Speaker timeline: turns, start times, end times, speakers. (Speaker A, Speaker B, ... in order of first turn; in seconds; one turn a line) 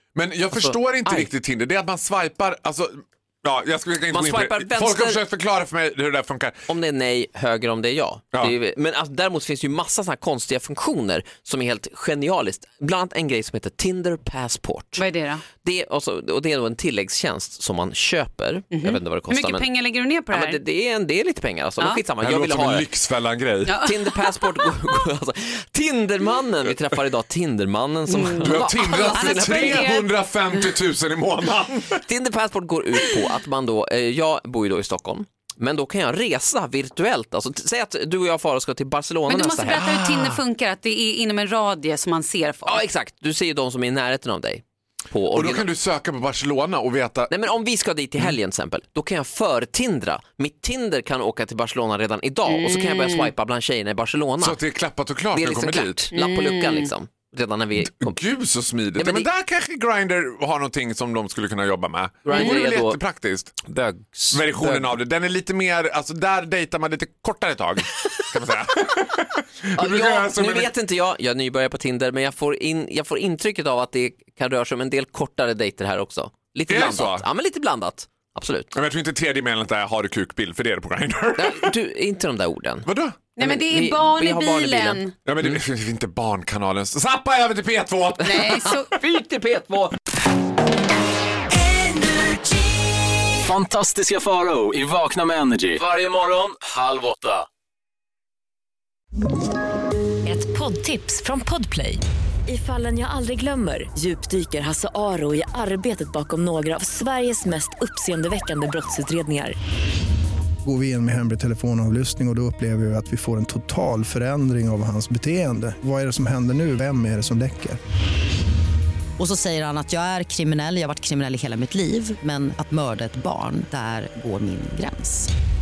Speaker A: 0.1-6.6
Speaker B: 0.5-1.3
Speaker B: 4.1-5.2
Speaker B: 6.7-15.0
Speaker C: 14.9-15.4
Speaker B: 15.6-19.7
Speaker C: 18.7-20.6
Speaker B: 20.3-22.9
Speaker A: 22.2-23.8
Speaker C: 23.7-24.7
Speaker B: 23.7-29.9
Speaker C: 28.1-30.1
Speaker A: 28.4-32.0
Speaker B: 32.0-39.9
Speaker C: 39.3-42.8
Speaker A: 39.7-40.4
Speaker B: 42.6-45.7
Speaker A: 45.3-47.3
Speaker B: 47.3-54.6
Speaker C: 52.5-53.3
Speaker A: 54.4-56.1
Speaker B: 55.3-58.2
Speaker C: 56.1-56.9
Speaker A: 57.8-63.6
Speaker B: 59.0-59.3
Speaker B: 62.2-63.0
Speaker B: 63.6-65.0
Speaker A: 64.3-70.7
Speaker B: 69.7-78.7
Speaker A: 76.7-77.3
Speaker A: 78.7-81.7
Speaker B: 81.4-85.6
Speaker A: 82.8-83.2
Speaker C: 83.4-85.1
Speaker A: 85.2-88.8
Speaker C: 88.2-88.9
Speaker B: 88.9-90.0
Speaker D: 91.7-92.3
Speaker D: 93.4-97.5
Speaker E: 100.2-109.5
Speaker F: 110.6-117.8
Speaker G: 119.2-125.3